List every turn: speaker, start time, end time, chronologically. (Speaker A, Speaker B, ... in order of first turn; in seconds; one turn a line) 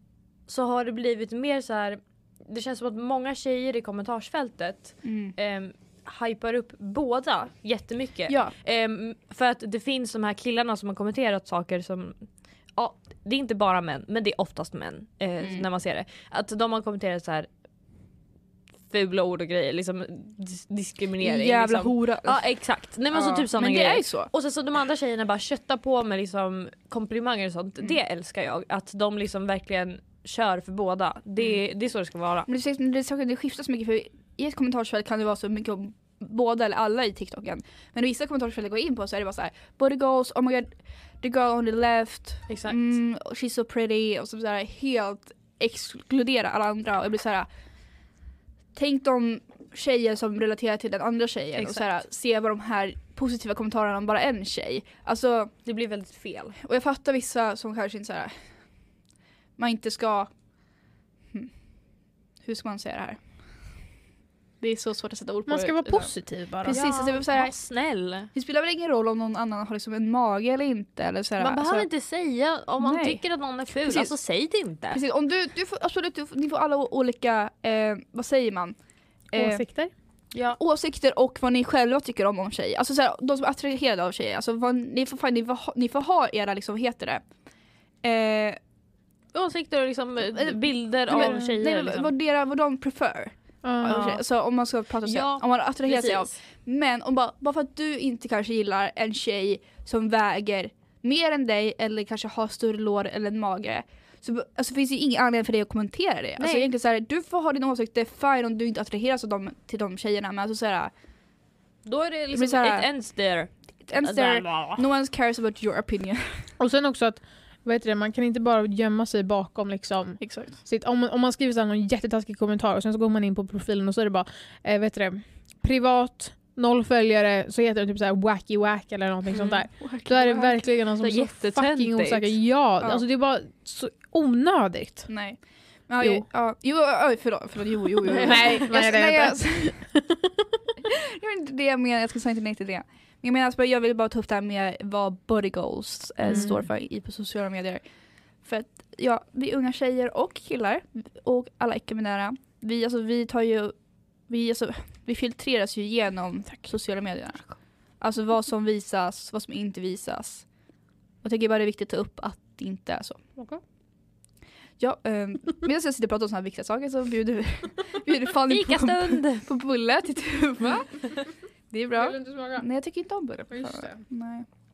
Speaker A: 0.5-17.5
Speaker B: 5.0-5.3
Speaker B: 8.3-8.5
Speaker B: 15.4-15.7
Speaker A: 18.9-32.5
Speaker B: 21.2-22.4
Speaker B: 23.1-24.3
Speaker B: 32.5-47.5
Speaker A: 42.5-42.8
Speaker B: 48.8-55.5
Speaker A: 51.5-51.9
Speaker A: 55.6-56.6
Speaker B: 56.6-58.3
Speaker B: 59.6-60.3
Speaker B: 62.4-63.2
Speaker B: 64.6-67.5
Speaker C: 65.5-66.8
Speaker A: 66.6-68.3
Speaker B: 68.3-71.9
Speaker A: 71.4-75.0
Speaker B: 72.8-73.2
Speaker B: 73.8-74.1
Speaker B: 74.9-78.8
Speaker B: 79.3-79.6
Speaker C: 79.3-79.9
Speaker B: 80.6-87.2
Speaker B: 88.0-88.6
Speaker A: 89.3-92.1
Speaker B: 90.3-110.9
Speaker C: 91.2-91.5
Speaker C: 93.6-94.0
Speaker A: 93.9-94.2
Speaker A: 95.0-96.3
Speaker A: 106.4-106.7
Speaker A: 111.8-114.8
Speaker B: 112.3-112.9
Speaker B: 113.9-116.3
Speaker C: 116.6-135.1
Speaker B: 120.2-120.5
Speaker A: 129.3-129.6
Speaker B: 129.8-130.6
Speaker A: 131.0-132.3
Speaker B: 135.1-139.8
Speaker C: 136.0-136.2
Speaker A: 138.1-138.6
Speaker C: 138.1-140.5
Speaker B: 140.9-147.8
Speaker A: 146.2-146.6
Speaker C: 146.3-146.5
Speaker B: 148.4-153.7
Speaker B: 154.3-160.4
Speaker B: 161.2-163.2
Speaker B: 164.8-171.2
Speaker A: 168.5-169.5
Speaker B: 171.7-174.4
Speaker C: 172.0-172.6
Speaker C: 173.5-174.0